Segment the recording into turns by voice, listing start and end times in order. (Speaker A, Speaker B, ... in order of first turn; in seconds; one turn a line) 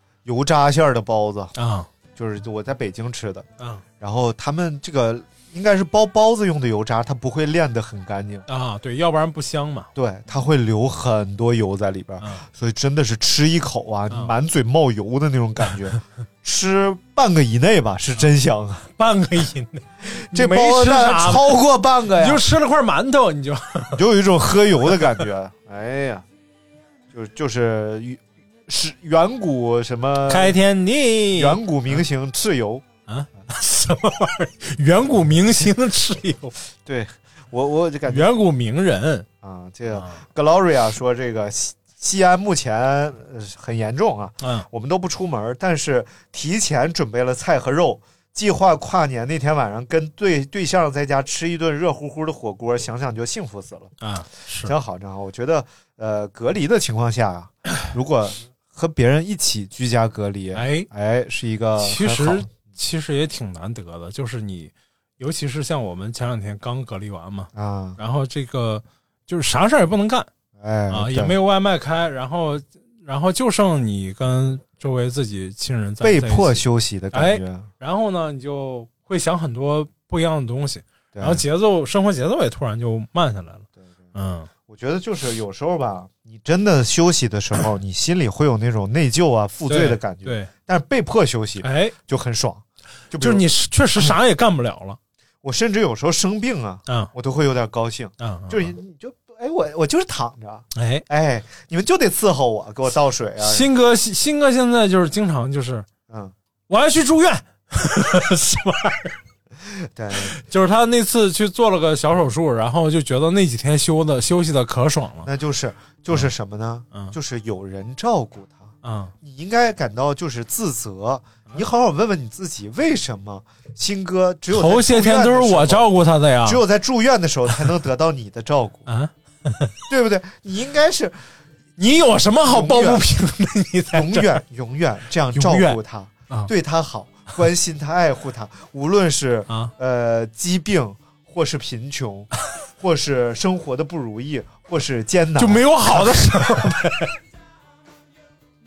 Speaker A: 0.2-1.5
Speaker B: 1.6-1.9
Speaker A: 2.2-3.5
Speaker A: 4.0-8.5
Speaker B: 8.5-9.9
Speaker A: 9.9-18.9
Speaker B: 19.0-21.6
Speaker A: 20.0-22.4
Speaker B: 22.2-24.0
Speaker A: 23.9-26.3
Speaker A: 27.1-30.6
Speaker B: 30.3-32.0
Speaker A: 31.4-32.9
Speaker B: 33.1-36.6
Speaker A: 36.9-38.3
Speaker B: 38.1-39.3
Speaker A: 39.4-53.9
Speaker B: 39.9-40.2
Speaker B: 44.4-44.7
Speaker B: 54.0-54.7
Speaker A: 54.6-62.5
Speaker B: 60.5-60.9
Speaker B: 61.8-70.3
Speaker A: 67.5-68.0
Speaker A: 70.6-71.4
Speaker B: 70.9-84.5
Speaker A: 76.0-77.7
Speaker A: 81.1-81.4
Speaker A: 84.7-93.5
Speaker B: 89.7-90.5
Speaker B: 91.6-92.0
Speaker B: 93.2-95.0
Speaker A: 95.4-103.7
Speaker B: 98.2-98.7
Speaker B: 100.8-101.0
Speaker B: 103.4-105.9
Speaker A: 106.1-106.3
Speaker B: 106.7-109.2
Speaker A: 109.6-110.3
Speaker B: 110.2-115.3
Speaker A: 115.2-128.9
Speaker B: 118.8-119.1
Speaker B: 124.5-126.6
Speaker B: 128.9-129.8
Speaker A: 129.9-131.2
Speaker B: 131.8-134.4
Speaker A: 132.4-133.1
Speaker A: 133.9-146.7
Speaker B: 135.3-135.8
Speaker B: 145.4-147.1